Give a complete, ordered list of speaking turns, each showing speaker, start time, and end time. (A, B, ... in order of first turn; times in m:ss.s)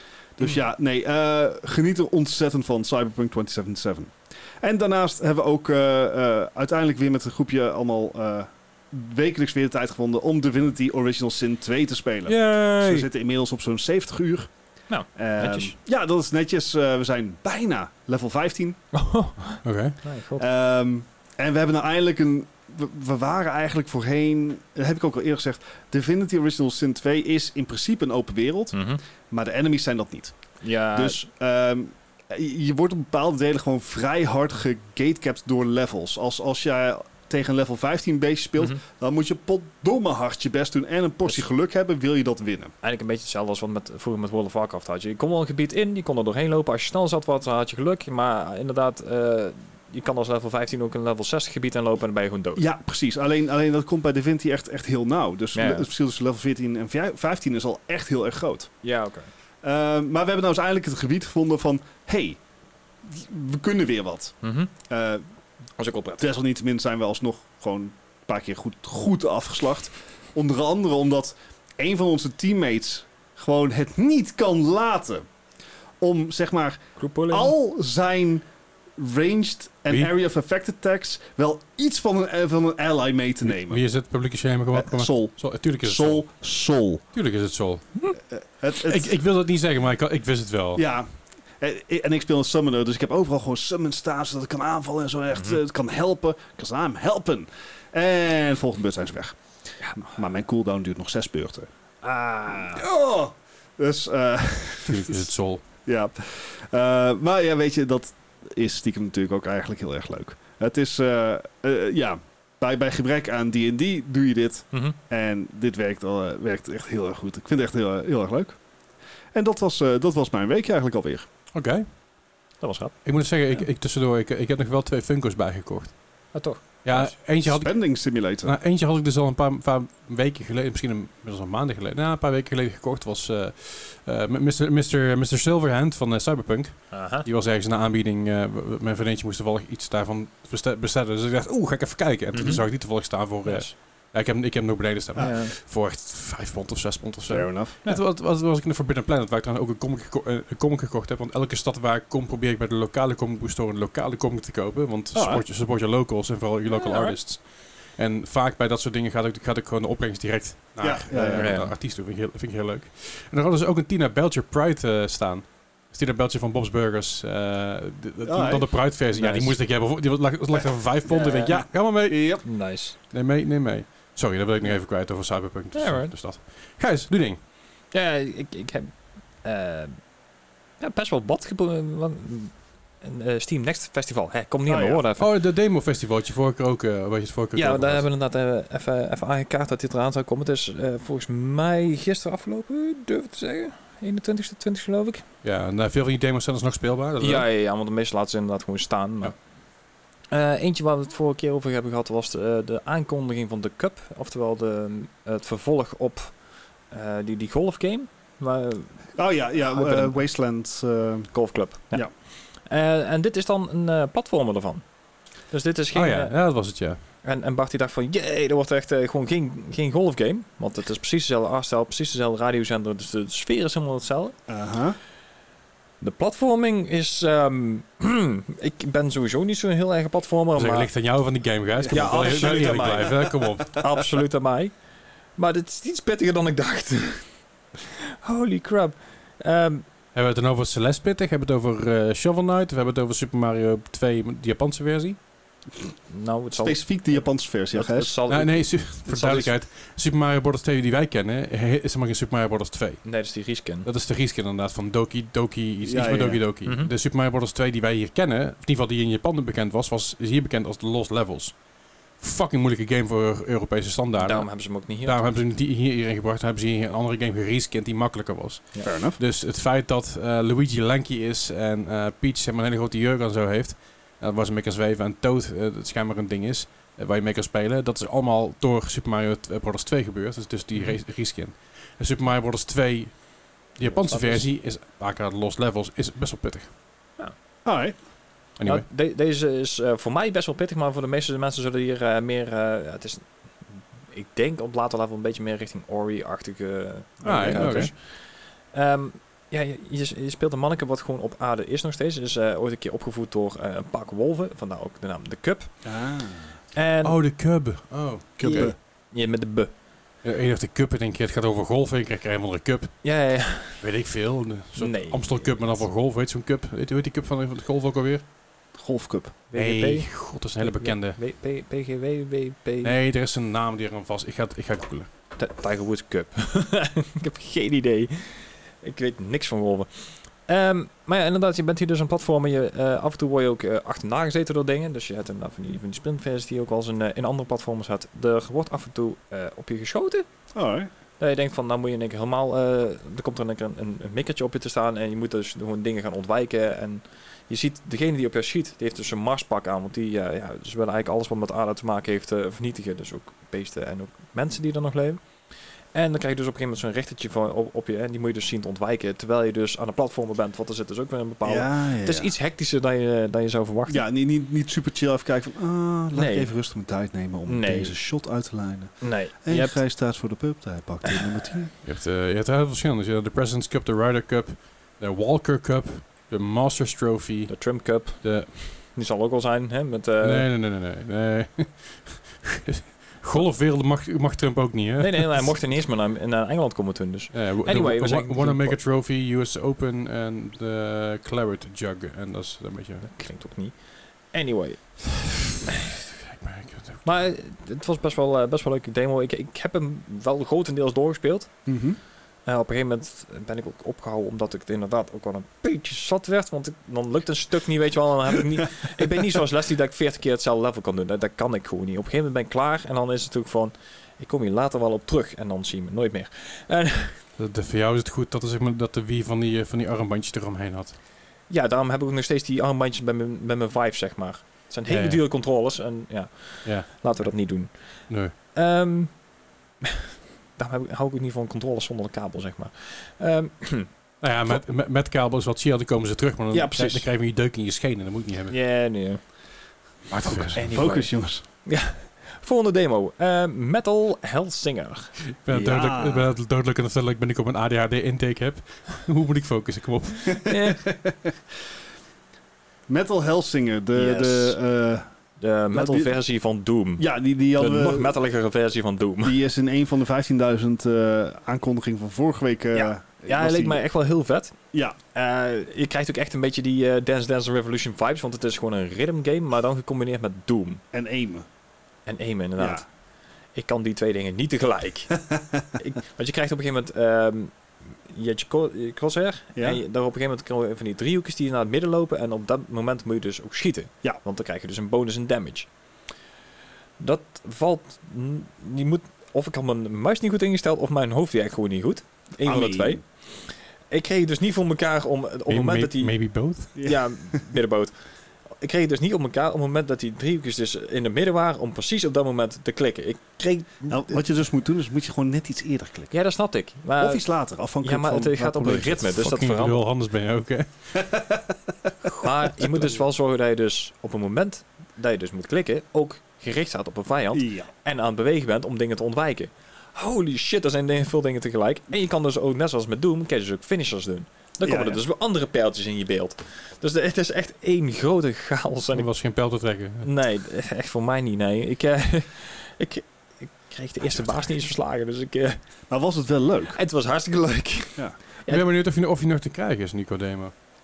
0:00.4-0:14.5 A
0:12.3-0:13.0 B
0:14.9-0:15.7 C
0:15.1-0:18.8 A
0:18.9-0:20.5 C
0:19.6-0:20.0 B
0:20.4-0:30.4 A
0:28.7-0:29.0 C
0:30.6-0:31.2 C
0:30.9-0:42.7 A
0:42.8-0:52.6 C
0:52.6-0:58.7 A
0:55.5-0:55.9 C
0:58.8-0:59.3 C
0:59.6-1:02.4 A
1:03.0-1:04.3 A
1:04.4-1:04.7 C
1:04.9-1:05.2 A
1:05.8-1:06.3 C
1:06.2-1:15.2 A
1:16.0-1:18.4 A
1:17.0-1:17.5 C
1:19.0-1:23.8 A
1:23.4-1:26.2 B
1:24.7-1:27.0 A
1:27.1-1:27.9 B
1:28.3-1:29.2 A
1:28.8-1:30.8 B
1:30.8-1:31.1 A
1:31.6-1:39.4 A
1:35.3-1:35.6 C
1:40.0-1:41.7 A
1:42.0-1:42.8 C
1:42.6-1:45.3 A
1:44.9-1:45.6 B
1:45.8-1:58.6 A
1:54.7-1:55.0 C
1:59.3-2:01.2 A
2:01.5-2:01.9 B
2:02.6-2:03.6 C
2:03.0-2:06.0 B
2:06.3-2:07.1 C
2:06.8-2:07.7 B
2:07.4-2:08.5 A
2:08.4-2:52.4 B
2:16.9-2:17.2 C
2:22.3-2:22.7 C
2:23.4-2:23.7 C
2:25.2-2:25.5 C
2:27.3-2:27.8 A
2:35.1-2:35.4 A
2:36.7-2:37.2 C
2:40.8-2:41.6 A
2:41.3-2:41.7 C
2:48.2-2:48.8 A
2:49.1-2:49.6 C
2:51.1-2:51.6 C
2:51.5-2:52.4 A
2:52.4-2:53.0 C
2:53.1-2:57.4 B
2:55.7-2:56.1 C
2:57.9-3:00.0 C
3:00.8-3:05.3 C
3:04.7-3:05.0 A
3:05.2-3:08.0 B
3:07.5-3:15.2 C
3:15.4-3:17.5 B
3:17.2-3:19.4 C
3:20.3-3:26.3 C
3:26.9-3:30.2 C
3:29.1-3:31.3 A
3:31.3-3:34.8 C
3:35.5-3:36.3 C
3:35.9-3:37.0 B
3:37.2-3:44.3 C
3:44.5-3:45.0 A
3:46.0-3:50.9 C
3:50.5-3:53.7 B
3:51.8-3:54.0 A
3:51.9-3:53.0 C
3:53.8-3:54.7 C
3:55.4-3:59.8 C
4:00.1-4:05.2 B
4:06.1-4:09.5 C
4:06.6-4:08.1 A
4:08.3-4:13.0 B
4:13.0-4:13.9 C
4:13.8-4:21.6 B
4:15.8-4:16.4 A
4:16.6-4:16.9 C
4:22.2-4:46.7 B
4:24.2-4:25.2 C
4:28.8-4:29.2 A
4:43.8-4:44.5 C
4:47.6-4:47.9 A
4:48.6-4:48.8 B
4:48.6-4:53.5 C
4:54.1-5:05.9 C
4:57.2-4:57.9 A
4:57.2-4:57.9 B
5:05.8-5:06.6 A
5:06.7-5:07.2 C
5:07.0-5:08.7 B
5:08.4-5:08.8 A
5:08.4-5:09.7 C
5:10.2-5:13.0 B
5:13.0-5:13.8 C
5:13.8-5:18.2 B
5:14.8-5:15.8 C
5:18.7-5:19.4 A
5:19.5-5:22.9 C
5:19.5-5:21.2 B
5:22.8-5:25.1 B
5:25.4-5:40.2 C
5:40.5-5:40.9 A
5:41.2-5:55.2 C
5:55.9-6:04.0 C
6:01.4-6:02.3 A
6:03.9-6:11.7 A
6:06.1-6:06.5 C
6:07.5-6:08.0 C
6:09.0-6:09.8 C
6:11.0-6:11.4 C
6:11.8-6:18.6 B
6:17.5-6:20.5 C
6:20.2-6:25.5 B
6:25.0-6:28.8 C
6:27.3-6:33.0 B
6:33.0-6:33.8 C
6:34.3-6:35.4 C
6:36.2-6:37.3 B
6:37.0-6:41.5 C
6:41.7-6:42.0 A
6:42.4-6:57.2 C
6:57.4-7:01.0 B
7:01.5-7:09.1 C
7:04.9-7:05.2 B
7:08.1-7:08.3 B
7:09.8-7:13.9 C
7:14.2-7:18.6 B
7:16.5-7:17.0 C
7:18.5-7:19.2 C
7:20.1-7:20.6 B
7:20.3-7:21.4 A
7:20.5-7:25.1 C
7:25.4-7:30.5 B
7:25.5-7:26.3 A
7:30.3-7:31.3 A
7:30.4-7:30.9 C
7:32.9-7:35.0 A
7:33.9-7:34.6 C
7:35.4-7:39.4 C
7:35.7-7:36.2 A
7:37.0-7:38.2 A
7:39.2-7:43.8 A
7:42.7-7:44.5 C
7:45.1-7:50.8 C
7:50.9-7:51.4 A
7:52.0-7:52.9 C
7:52.6-7:52.8 A
7:53.5-7:55.3 C
7:55.2-7:55.6 A
7:55.8-7:57.5 C
7:58.1-8:05.7 C
7:59.6-7:59.8 A
8:07.0-8:16.2 C
8:12.4-8:13.0 A
8:15.5-8:16.7 B
8:16.7-8:17.9 C
8:16.8-8:17.4 A
8:18.5-8:24.2 C
8:23.9-8:26.1 A
8:26.1-8:27.3 C
8:27.0-8:29.0 A
8:27.8-8:29.8 C
8:28.8-8:30.9 B
8:30.9-8:32.7 A
8:32.2-8:49.1 C
8:37.3-8:37.7 A
8:44.6-8:45.0 A
8:48.9-8:50.1 B
8:50.0-8:55.6 C
8:55.9-8:56.8 A
8:56.7-8:58.6 C
8:58.5-9:00.5 B